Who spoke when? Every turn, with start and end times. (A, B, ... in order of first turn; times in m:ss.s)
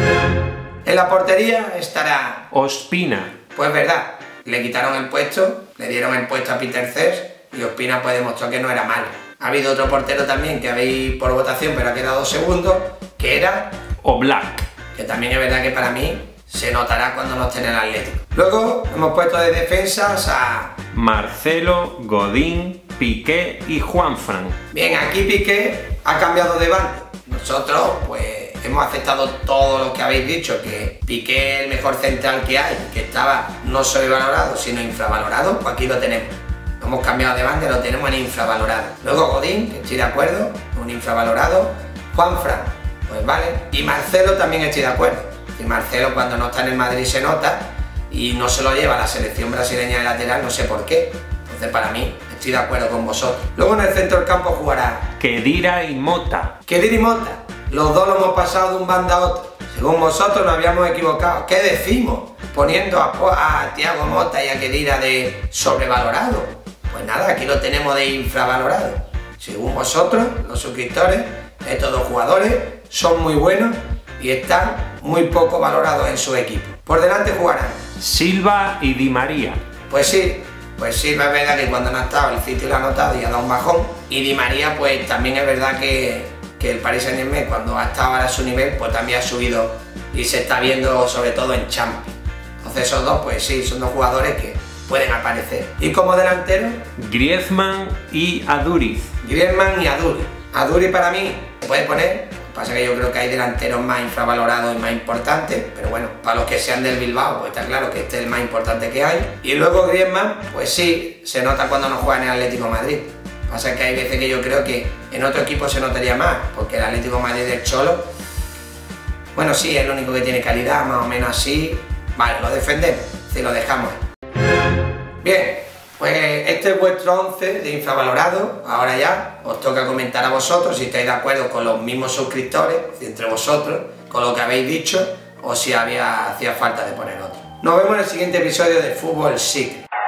0:00.8-0:02.5 A
0:02.5-0:03.4 B
0:03.5-0:13.8 A
0:14.0-0:14.7 B
0:14.9-0:20.8 A
0:20.9-0:24.6 B
0:24.7-0:55.1 A
0:55.2-0:56.6 B
0:56.6-1:17.9 A
1:18.0-1:19.6 B
1:19.9-1:36.8 A
1:37.0-1:39.1 B
1:39.2-1:58.1 A
1:59.3-2:04.0 A
2:05.2-2:19.8 A